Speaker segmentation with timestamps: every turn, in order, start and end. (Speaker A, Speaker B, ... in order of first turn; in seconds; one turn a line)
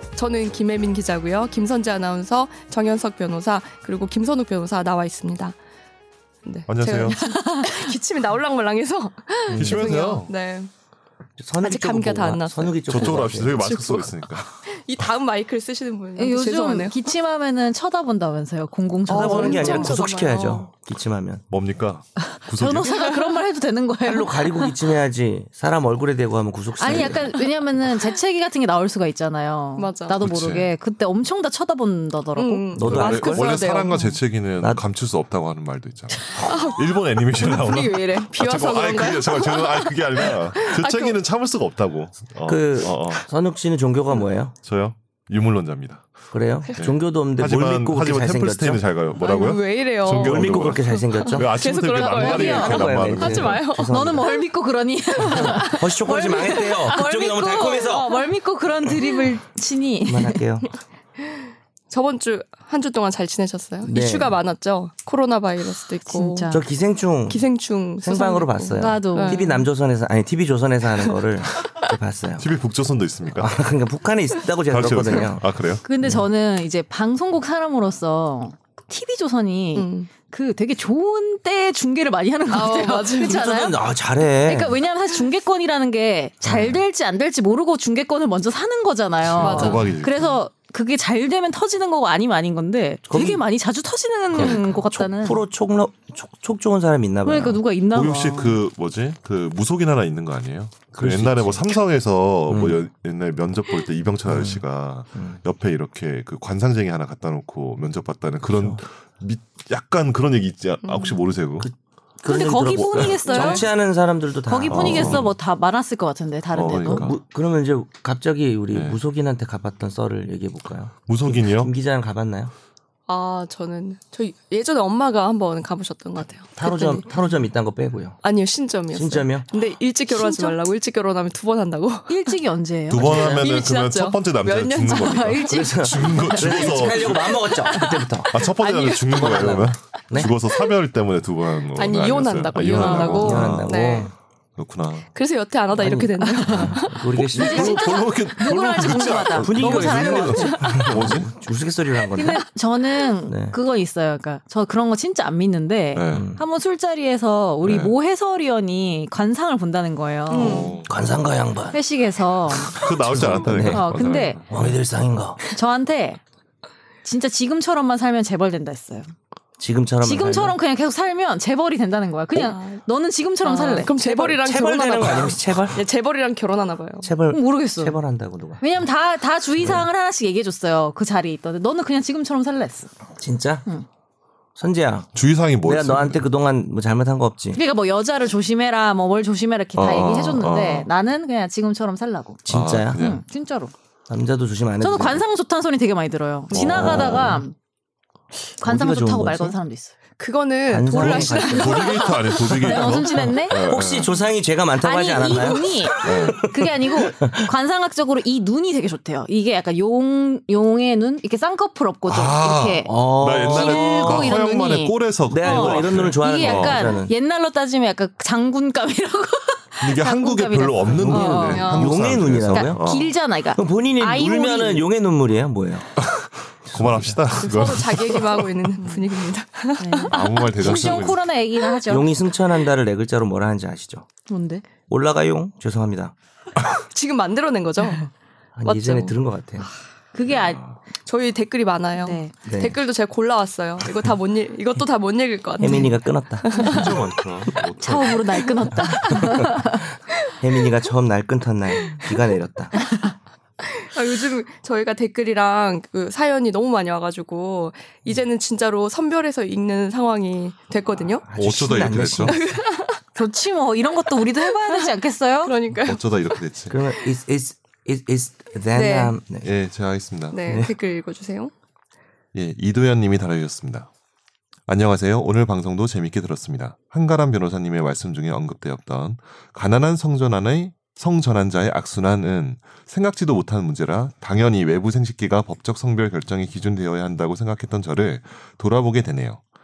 Speaker A: 0.1-5.6
Speaker A: 6.4-10.7
Speaker B: 6.7-7.2
Speaker C: 7.2-7.9
Speaker B: 9.5-10.3
Speaker D: 11.4-13.6
Speaker A: 11.6-17.0
Speaker B: 12.9-14.6
Speaker C: 16.2-20.1
Speaker A: 19.1-20.7
Speaker D: 19.1-21.4
Speaker B: 21.5-22.9
Speaker C: 22.2-24.8
Speaker A: 22.9-23.4
Speaker D: 24.1-27.4
Speaker C: 26.8-32.6
Speaker A: 29.8-30.2
Speaker B: 30.2-30.7
Speaker A: 32.4-34.0
Speaker D: 32.7-33.5
Speaker B: 32.8-43.3
Speaker C: 33.9-34.2
Speaker C: 36.1-36.7
Speaker A: 36.4-41.2
Speaker D: 42.5-44.5
Speaker B: 44.6-46.2
Speaker D: 46.3-48.8
Speaker B: 46.8-53.7
Speaker A: 49.2-53.9
Speaker D: 50.2-51.5
Speaker C: 51.9-53.0
Speaker D: 52.3-54.4
Speaker C: 53.8-60.4
Speaker D: 55.2-58.2
Speaker A: 55.2-55.8
Speaker D: 60.0-60.7
Speaker A: 61.2-66.6
Speaker D: 63.8-64.3
Speaker C: 66.1-66.6
Speaker D: 66.5-67.4
Speaker A: 67.3-69.7
Speaker D: 68.0-72.5
Speaker C: 68.8-69.4
Speaker B: 72.4-73.6
Speaker D: 73.4-75.5
Speaker B: 74.7-75.8
Speaker C: 75.8-83.8
Speaker D: 76.0-76.3
Speaker A: 79.8-80.1
Speaker A: 82.5-83.5
Speaker D: 83.2-84.8
Speaker C: 84.4-95.4
Speaker D: 86.4-86.8
Speaker B: 89.2-90.4
Speaker A: 89.4-89.9
Speaker D: 93.1-93.4
Speaker D: 94.3-97.6
Speaker B: 94.3-94.7
Speaker C: 97.2-98.6
Speaker B: 97.9-111.7
Speaker D: 101.0-101.8
Speaker D: 102.5-102.8
Speaker D: 104.2-104.6
Speaker D: 105.1-105.4
Speaker D: 108.5-108.8
Speaker A: 110.8-111.2
Speaker D: 111.6-115.3
Speaker C: 112.3-113.7
Speaker B: 112.8-113.1
Speaker A: 113.2-113.7
Speaker C: 114.5-117.1
Speaker B: 114.7-115.3
Speaker B: 116.5-117.2
Speaker D: 116.8-122.5
Speaker B: 118.7-119.0
Speaker B: 121.1-121.7
Speaker A: 123.1-127.0
Speaker D: 126.5-128.2
Speaker A: 128.2-132.3
Speaker D: 128.9-129.5
Speaker C: 130.1-130.6
Speaker C: 132.1-133.5
Speaker B: 132.9-137.5
Speaker A: 133.0-135.5
Speaker C: 134.9-136.8
Speaker D: 135.5-140.3
Speaker C: 137.3-138.1
Speaker B: 138.3-143.7
Speaker A: 138.4-139.5
Speaker A: 141.7-144.1
Speaker C: 142.6-143.6
Speaker D: 142.9-144.1
Speaker B: 144.6-145.1
Speaker A: 145.2-147.0
Speaker D: 145.8-148.0
Speaker C: 146.2-146.8
Speaker B: 147.2-151.3
Speaker C: 147.3-150.6
Speaker D: 149.3-152.4
Speaker A: 150.3-151.0
Speaker C: 152.1-160.7
Speaker D: 153.3-153.6
Speaker B: 155.9-156.3
Speaker D: 156.1-156.4
Speaker B: 157.6-157.9
Speaker A: 160.3-160.8
Speaker B: 160.4-160.9
Speaker D: 160.8-161.8
Speaker C: 161.7-164.4
Speaker D: 162.5-165.4
Speaker B: 162.7-164.8
Speaker C: 165.5-166.2
Speaker C: 167.0-169.1
Speaker D: 169.6-170.6
Speaker C: 170.0-174.0
Speaker A: 172.3-172.8
Speaker A: 173.4-177.1
Speaker D: 173.9-175.8
Speaker D: 177.0-178.8
Speaker C: 177.3-178.0
Speaker C: 178.6-182.9
Speaker D: 179.6-179.8
Speaker D: 183.2-183.7
Speaker D: 184.6-185.1
Speaker B: 185.2-186.3
Speaker D: 185.6-187.6
Speaker C: 187.5-192.4
Speaker B: 189.8-190.9
Speaker D: 192.4-193.0
Speaker B: 192.5-193.2
Speaker C: 192.9-193.7
Speaker D: 194.1-195.2
Speaker C: 194.8-197.6
Speaker D: 196.5-197.4
Speaker B: 196.5-197.4
Speaker C: 198.5-199.9
Speaker D: 198.6-199.6
Speaker A: 200.2-203.2
Speaker D: 200.7-202.1
Speaker C: 200.9-203.6
Speaker B: 200.9-204.3
Speaker D: 203.6-207.5
Speaker C: 204.8-212.9
Speaker B: 206.0-206.4
Speaker B: 212.1-217.0
Speaker D: 212.9-214.4
Speaker C: 213.5-221.8
Speaker D: 215.3-217.1
Speaker B: 219.8-223.1
Speaker D: 221.0-222.8
Speaker A: 221.1-222.0
Speaker C: 222.5-224.9
Speaker D: 223.6-226.0
Speaker B: 226.0-228.7
Speaker D: 226.7-227.2
Speaker A: 227.4-230.8
Speaker C: 229.8-232.2
Speaker B: 230.1-231.2
Speaker D: 230.6-231.0
Speaker D: 231.9-234.1
Speaker C: 234.3-234.6
Speaker D: 234.9-236.1
Speaker A: 236.9-238.1
Speaker D: 238.6-239.7
Speaker A: 238.7-239.2
Speaker C: 240.1-240.6
Speaker B: 240.3-240.8
Speaker A: 241.0-247.5
Speaker C: 242.0-242.3
Speaker D: 242.4-242.8
Speaker D: 245.6-246.9
Speaker B: 246.6-248.2
Speaker C: 247.8-249.8
Speaker A: 248.3-248.8
Speaker D: 248.8-252.8
Speaker A: 253.6-261.2
Speaker D: 260.9-262.5
Speaker B: 261.4-262.4
Speaker A: 262.3-263.0
Speaker C: 263.1-265.5
Speaker A: 264.4-266.3
Speaker B: 265.8-266.8
Speaker D: 266.7-269.5
Speaker A: 268.7-269.1
Speaker B: 269.4-270.7
Speaker A: 270.3-271.5
Speaker D: 270.5-270.8
Speaker B: 272.3-273.9
Speaker B: 274.7-289.4